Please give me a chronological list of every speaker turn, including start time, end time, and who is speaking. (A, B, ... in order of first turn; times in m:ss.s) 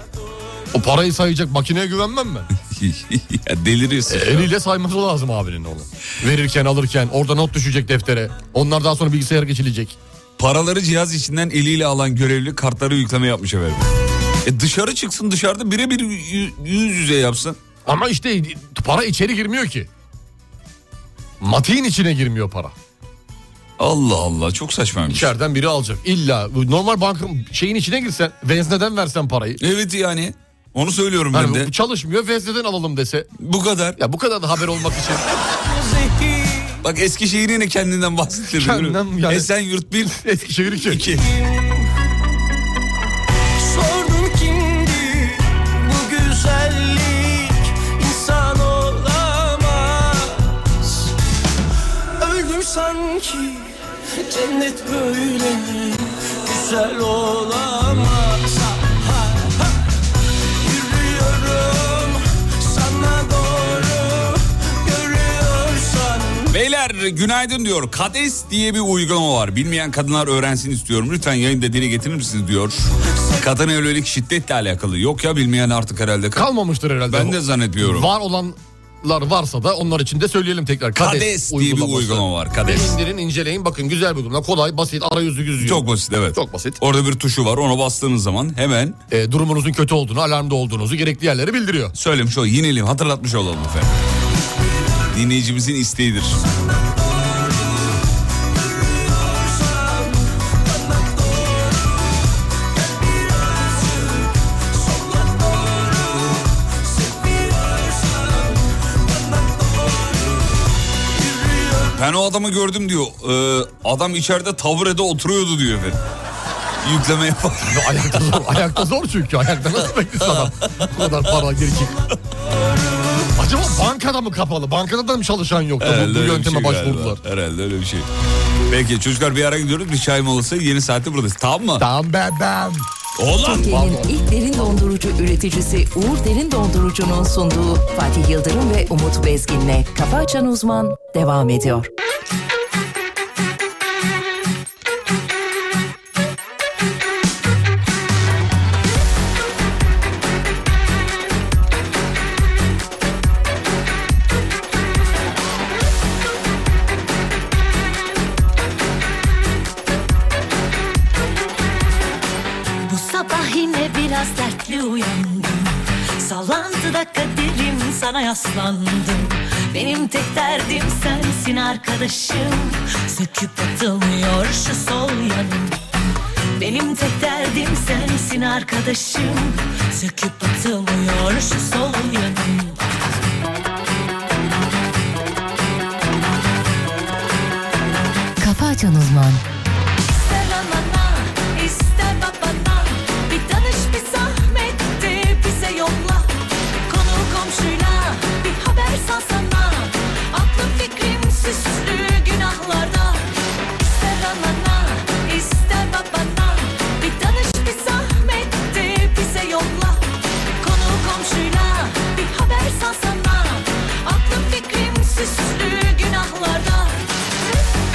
0:00.7-0:02.5 A
0:02.6-0:04.5 B
0:04.1-0:10.0 A
0:10.4-0:13.9 B
0:14.4-0:17.6 B
0:17.8-0:19.9 A
0:21.4-0:22.7 A
0:23.8-0:25.3 B
0:25.1-0:29.6 A
0:29.6-0:31.7 B
0:31.3-0:33.3 A
0:33.4-0:34.0 B
0:34.0-0:35.2 A
0:36.8-0:40.2 B
0:38.5-0:39.5 A
0:40.0-0:41.1 A
0:40.9-0:41.3 B
0:46.4-0:46.7 C
0:56.6-0:57.0 C
1:04.9-1:06.2 C
1:06.5-1:16.5 B
1:16.3-1:26.8 A
1:17.1-1:18.1 B
1:21.0-1:23.0 B
1:25.6-1:29.0 B
1:29.1-1:31.9 A
1:31.9-1:33.9 B
1:35.1-1:36.4 B
1:51.9-1:56.0 B
1:56.8-1:58.0 B
1:57.6-2:02.0 A
2:00.2-2:00.9 B
2:03.4-2:07.2 A
2:05.8-2:08.1 B
2:08.7-2:11.8 B
2:11.8-2:12.9 A
2:13.2-2:13.6 B
2:13.4-2:21.9 D
2:13.6-2:14.1 A
2:42.8-2:55.8 E
2:56.6-3:02.8 E
3:08.4-3:09.4 D
3:10.1-3:30.1 E
3:30.6-3:37.0 E